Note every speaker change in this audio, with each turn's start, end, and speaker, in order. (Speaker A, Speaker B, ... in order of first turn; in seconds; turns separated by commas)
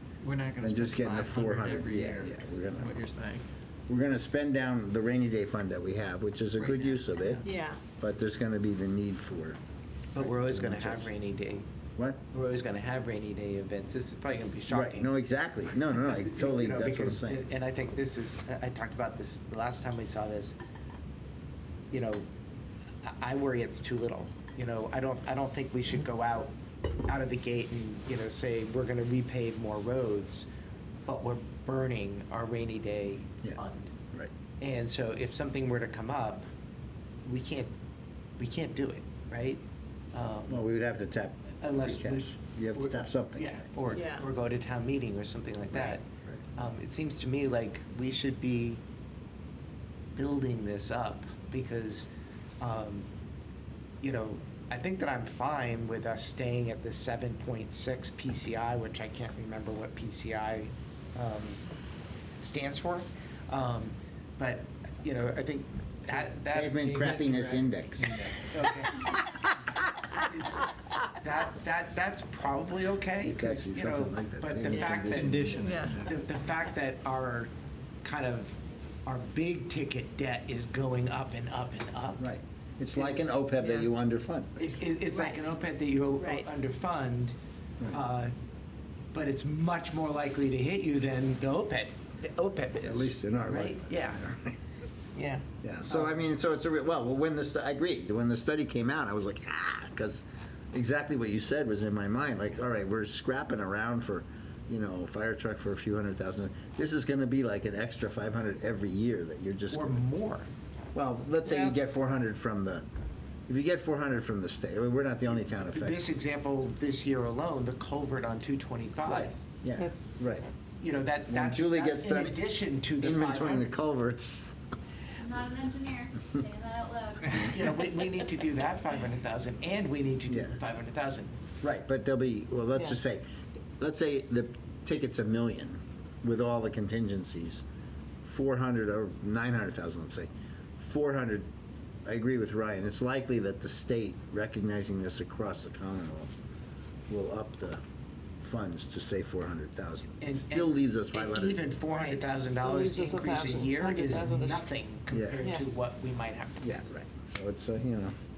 Speaker A: 0.2-3.4, Speaker B: 0.6-3.0, Speaker B: 3.9-7.4, Speaker A: 6.6-7.4, Speaker C: 7.5-7.8, Speaker B: 8.0-9.6, Speaker D: 10.1-11.7, Speaker B: 10.4-11.1, Speaker D: 12.3-15.1, Speaker B: 14.7-17.4, Speaker D: 16.2-20.6, Speaker D: 21.9-22.3, Speaker D: 23.0-26.5, Speaker D: 27.1-30.5, Speaker D: 31.1-33.9, Speaker D: 34.6-36.5, Speaker D: 37.2-37.7, Speaker D: 38.4-39.6, Speaker D: 40.1-40.7, Speaker B: 40.5-43.8, Speaker D: 41.6-46.0, Speaker C: 43.9-44.2, Speaker B: 45.7-46.4, Speaker D: 46.5-48.8, Speaker D: 50.1-52.1, Speaker D: 52.6-53.1, Speaker D: 54.0-61.6, Speaker D: 62.4-67.6, Speaker B: 66.5-68.2, Speaker A: 66.7-68.7, Speaker D: 68.4-69.1, Speaker D: 70.2-70.7, Speaker D: 71.2-77.5, Speaker B: 73.2-75.9, Speaker A: 74.7-76.2, Speaker D: 78.0-82.2, Speaker B: 82.2-84.6, Speaker D: 83.0-83.3, Speaker D: 84.6-87.4, Speaker C: 85.1-85.4, Speaker C: 86.2-86.5, Speaker D: 87.9-88.3, Speaker D: 89.1-94.2, Speaker B: 92.8-94.5, Speaker B: 95.6-110.0, Speaker D: 109.7-110.5, Speaker B: 110.9-112.8, Speaker B: 113.5-116.0, Speaker D: 115.7-119.3, Speaker B: 119.0-120.5, Speaker D: 120.8-123.7, Speaker B: 121.3-124.6, Speaker E: 125.2-127.4, Speaker D: 127.4-131.3, Speaker B: 130.3-130.6, Speaker B: 131.6-133.2, Speaker B: 133.8-137.6, Speaker B: 138.2-141.5, Speaker B: 142.1-146.3, Speaker B: 147.1-147.8, Speaker B: 148.4-151.6, Speaker D: 150.2-156.9, Speaker C: 151.9-154.5, Speaker A: 153.5-154.3, Speaker B: 155.1-155.4, Speaker B: 156.6-158.2